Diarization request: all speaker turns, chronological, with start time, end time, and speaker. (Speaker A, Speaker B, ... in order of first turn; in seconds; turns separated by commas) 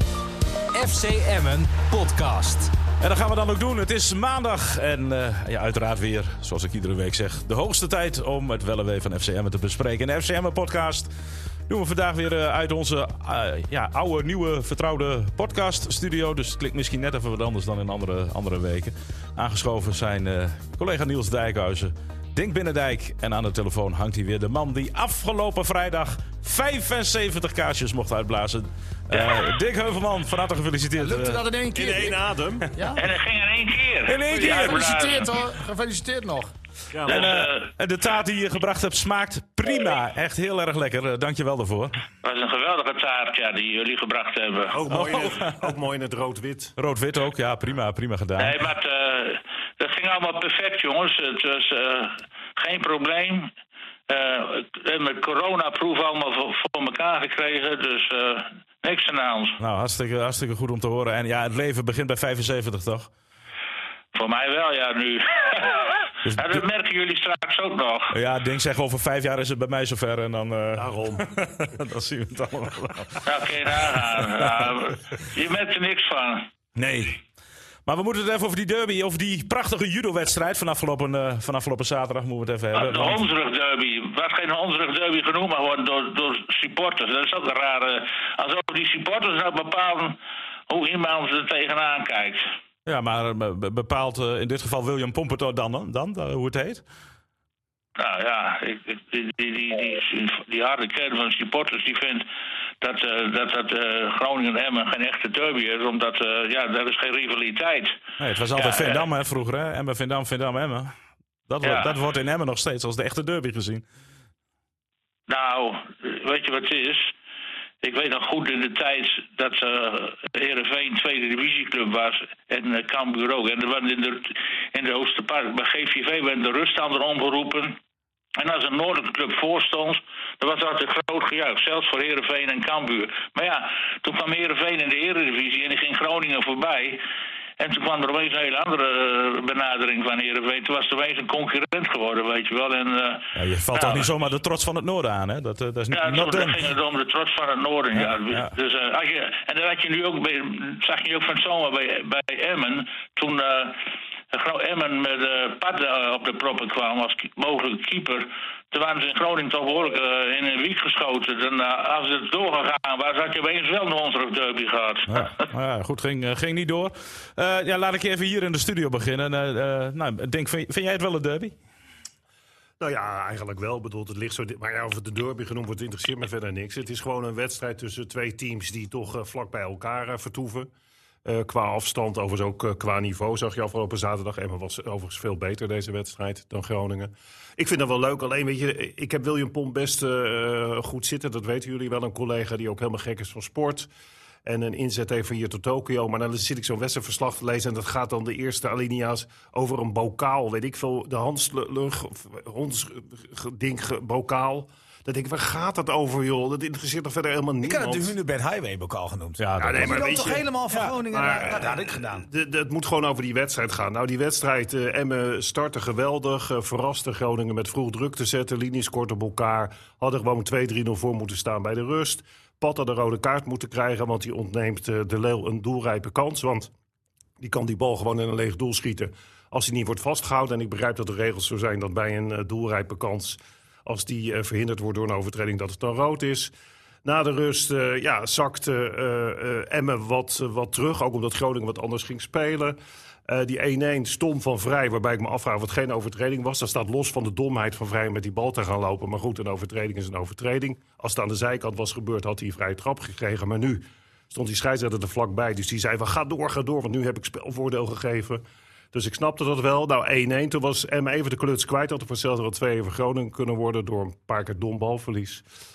Speaker A: 0.7-2.7, Speaker B: 3.0-11.1, Speaker B: 11.7-31.5, Speaker C: 31.0-33.0, Speaker D: 31.7-32.7, Speaker E: 33.0-35.3, Speaker B: 34.1-35.0, Speaker C: 34.3-36.5, Speaker D: 36.9-37.3, Speaker B: 37.0-42.0, Speaker E: 37.1-37.7, Speaker E: 42.2-44.8, Speaker D: 44.7-46.8, Speaker B: 44.9-45.5, Speaker B: 46.8-48.6, Speaker E: 48.4-53.5, Speaker E: 54.1-59.6, Speaker B: 59.6-63.1, Speaker E: 64.1-68.2, Speaker B: 66.2-66.6, Speaker B: 68.1-74.0, Speaker D: 70.8-71.3, Speaker E: 73.2-76.5, Speaker B: 76.8-77.2, Speaker B: 77.9-83.3, Speaker E: 82.7-90.2, Speaker E: 90.7-92.5, Speaker B: 92.9-96.8, Speaker E: 98.0-102.3, Speaker E: 102.8-108.0, Speaker B: 108.2-110.9, Speaker E: 108.6-109.0, Speaker B: 111.5-113.8, Speaker E: 111.6-112.0, Speaker E: 115.3-117.1, Speaker E: 117.8-127.8, Speaker E: 128.4-137.0, Speaker E: 137.6-144.1, Speaker B: 143.3-146.7, Speaker E: 145.9-153.8, Speaker B: 148.0-148.5, Speaker E: 154.3-165.5, Speaker B: 165.1-171.6, Speaker D: 172.8-180.7, Speaker D: 181.2-193.9, Speaker D: 194.5-208.1, Speaker F: 207.6-212.3, Speaker B: 209.4-210.0, Speaker D: 209.6-226.7, Speaker D: 227.4-236.5, Speaker D: 237.1-265.4